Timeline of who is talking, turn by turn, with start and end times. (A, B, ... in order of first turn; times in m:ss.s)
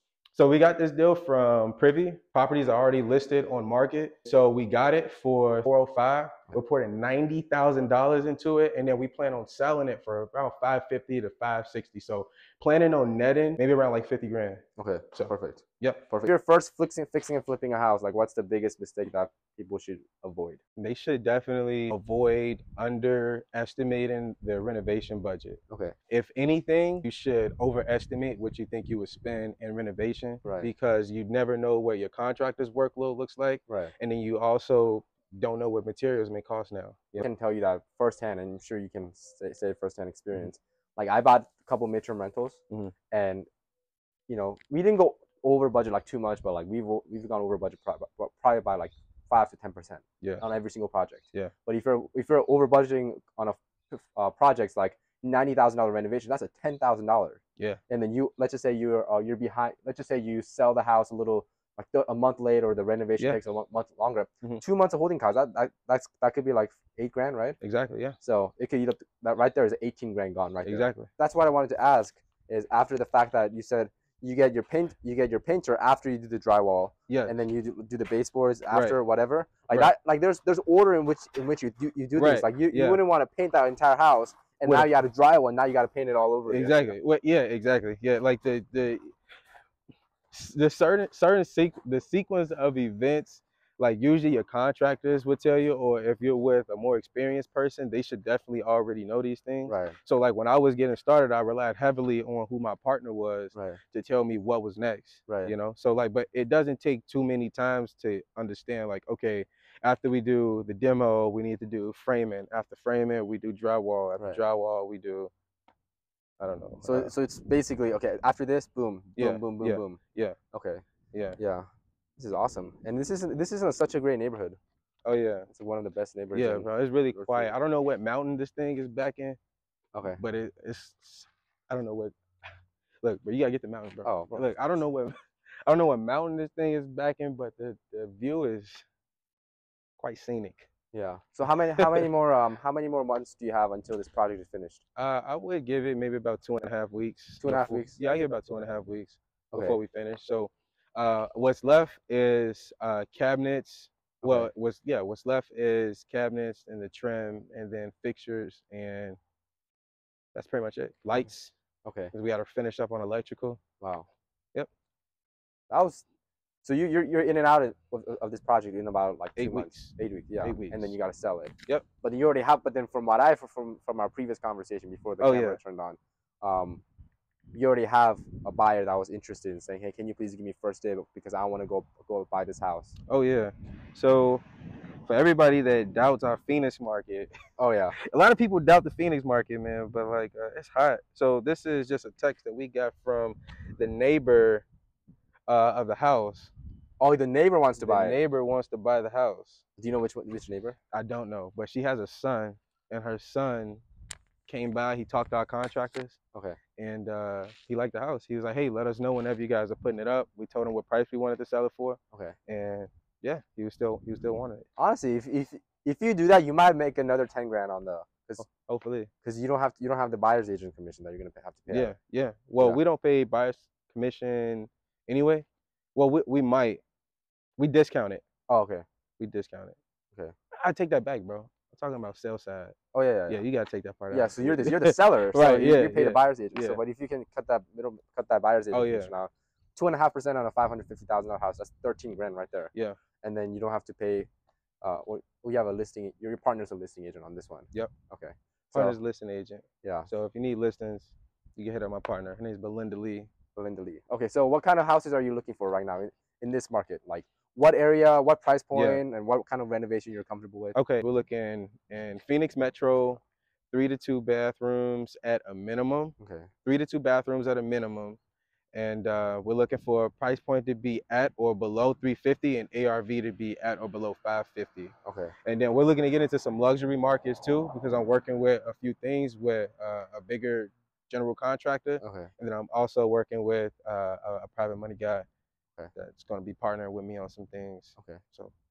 0:00.3-0:14.6 A
0:14.8-0:20.6 B
0:15.1-0:16.3 A
0:20.8-0:37.3 A
0:30.4-0:30.7 B
0:33.7-0:33.9 B
0:37.2-0:42.6 B
0:43.1-0:43.5 B
0:44.3-1:07.6 B
1:07.6-1:08.2 A
1:08.2-1:26.9 B
1:10.6-1:11.1 A
1:17.1-1:17.4 A
1:18.7-1:19.0 A
1:22.2-1:23.0 A
1:26.5-1:29.1 A
1:30.3-1:55.3 A
1:39.7-1:40.0 B
1:43.5-1:43.8 B
1:45.3-1:45.5 B
1:56.4-1:57.1 A
1:56.8-2:00.0 B
1:59.2-2:00.4 A
2:00.5-2:00.8 B
2:01.1-2:01.4 A
2:01.4-2:04.6 B
2:05.0-2:05.5 A
2:05.5-2:07.5 B
2:06.3-2:09.4 A
2:09.9-2:10.2 B
2:10.2-2:12.1 A
2:13.0-2:15.1 A
2:14.0-2:14.5 B
2:15.6-2:18.8 A
2:20.0-2:20.7 A
2:20.9-2:24.8 B
2:21.8-2:22.0 A
2:25.0-2:39.2 A
2:27.4-2:28.2 B
2:29.5-2:29.8 B
2:34.2-2:34.5 B
2:40.3-2:41.5 A
2:41.8-2:42.1 B
2:42.1-2:43.6 A
2:43.8-2:44.1 B
2:45.7-2:46.0 B
2:46.6-2:56.8 B
2:49.4-2:50.9 A
2:55.2-2:55.6 A
2:57.5-3:03.0 B
3:03.1-3:04.4 A
3:05.0-3:07.3 A
3:07.6-3:08.0 B
3:08.0-3:14.6 A
3:15.5-3:16.5 A
3:17.0-3:18.2 B
3:17.8-3:19.6 A
3:19.8-3:20.8 B
3:20.9-3:23.8 A
3:24.5-3:26.2 A
3:26.8-3:34.6 A
3:34.8-3:38.4 B
3:38.4-3:39.1 A
3:39.2-3:41.9 B
3:41.7-3:46.8 A
3:47.6-3:48.2 A
3:48.5-3:48.8 B
3:49.2-3:49.8 A
3:50.6-3:52.7 A
3:52.9-3:53.4 B
3:53.3-3:56.8 A
3:54.1-4:04.3 B
3:58.7-3:59.1 A
4:04.8-4:09.0 B
4:08.7-4:13.3 A
4:09.8-4:10.1 B
4:13.6-4:20.8 B
4:18.7-4:19.0 A
4:20.7-4:26.1 A
4:26.2-4:26.5 B
4:26.6-4:28.2 A
4:28.7-4:34.9 A
4:35.0-4:35.3 B
4:35.4-4:45.2 A
4:42.0-4:42.3 B
4:46.0-4:48.5 A
4:48.0-4:48.2 B